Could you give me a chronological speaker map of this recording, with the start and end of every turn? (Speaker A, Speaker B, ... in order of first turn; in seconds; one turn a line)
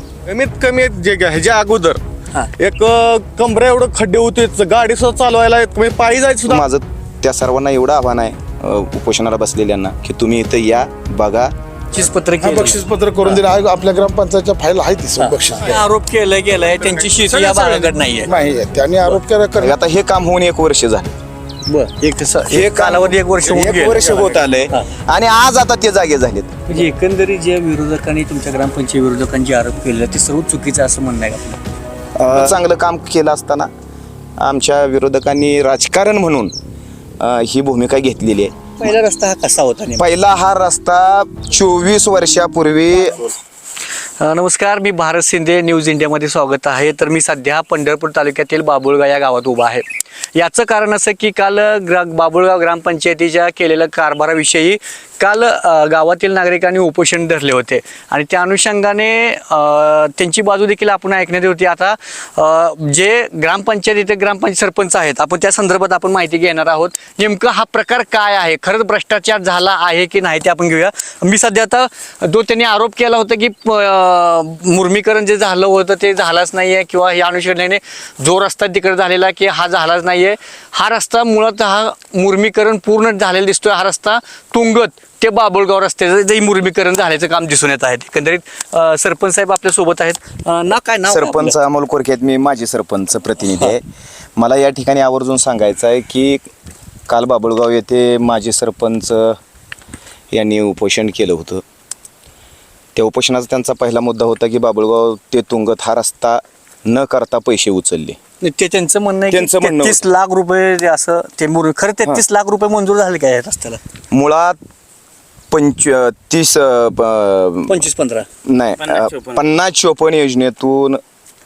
Speaker A: 0.3-2.0
Speaker A: 2.6-6.7
Speaker B: 6.5-11.5
Speaker C: 11.9-12.8
Speaker D: 12.4-15.8
Speaker C: 15.2-18.3
Speaker A: 16.8-18.0
Speaker D: 18.2-19.8
Speaker B: 19.6-21.1
Speaker C: 21.7-24.0
Speaker B: 22.5-26.6
Speaker A: 23.4-24.4
Speaker C: 26.7-31.6
Speaker B: 32.2-33.7
Speaker B: 34.4-36.5
Speaker B: 37.2-38.6
Speaker C: 38.8-40.0
Speaker B: 40.0-43.2
Speaker C: 44.2-49.8
Speaker C: 50.4-91.5
Speaker B: 91.1-93.8
Speaker B: 94.4-96.4
Speaker B: 97.1-99.4
Speaker B: 100.3-101.6
Speaker B: 103.0-108.2
Speaker C: 108.4-113.8
Speaker B: 109.3-110.0
Speaker B: 114.1-114.6
Speaker B: 115.5-117.8
Speaker C: 117.7-118.3
Speaker B: 118.5-121.0